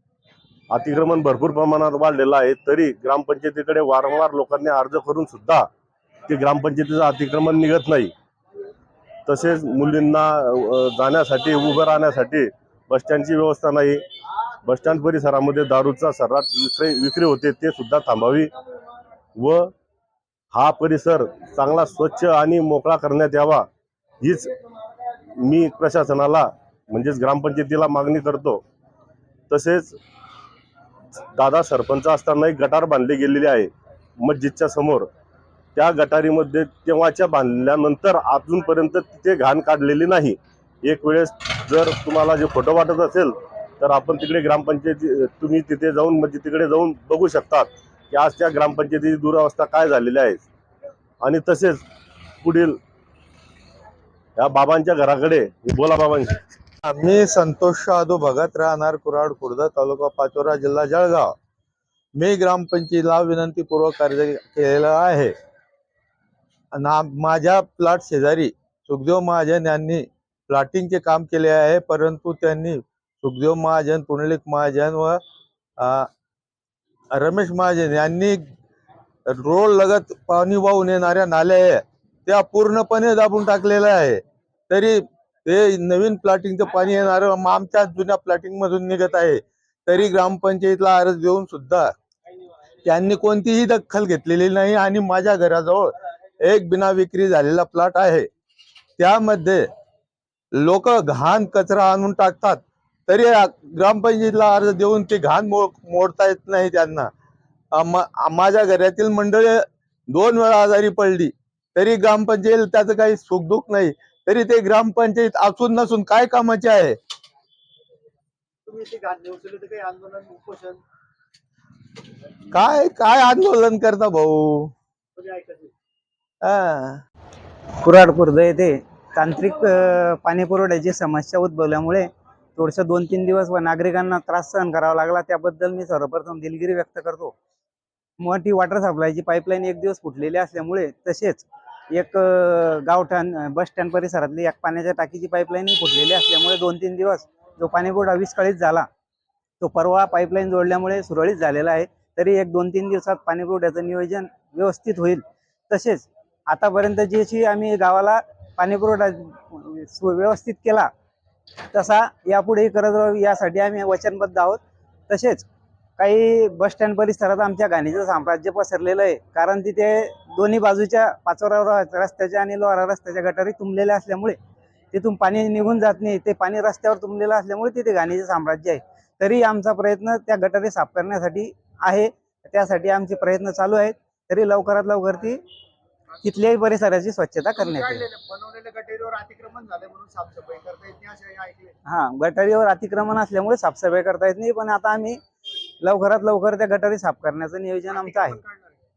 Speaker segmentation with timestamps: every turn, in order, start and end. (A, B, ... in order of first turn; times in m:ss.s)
0:00.7-0:05.7 A
0:06.3-0:08.1 A
0:09.3-0:14.0 A
0:14.6-0:18.5 A
0:19.4-0:19.7 A
0:20.5-0:23.7 A
0:24.2-0:24.5 A
0:25.4-0:28.6 A
0:29.5-0:30.0 A
0:31.3-0:35.1 A
0:35.7-0:50.4 A
0:51.2-0:51.8 A
0:52.4-0:52.8 A
0:54.4-0:56.4 A
0:56.8-1:01.3 B
1:02.2-1:05.3 B
1:06.7-1:15.2 B
1:15.8-1:16.1 B
1:17.1-1:18.4 B
1:19.3-1:31.9 B
1:32.8-1:38.3 B
1:39.0-1:39.7 B
1:40.5-1:47.1 B
1:47.7-1:57.0 B
1:58.7-2:00.8 C
2:02.5-2:04.7 B
2:05.2-2:05.7 C
2:06.4-2:07.0 B
2:07.8-2:17.3 D
2:18.2-2:28.9 D
2:29.6-2:40.9 D
2:41.7-2:45.5 D
2:46.0-2:54.4 D
2:54.9-3:05.4 D
3:06.2-3:08.0 D
3:07.6-3:11.7 C
3:11.8-3:15.2 D
3:15.8-3:18.4 D
3:18.0-3:18.8 C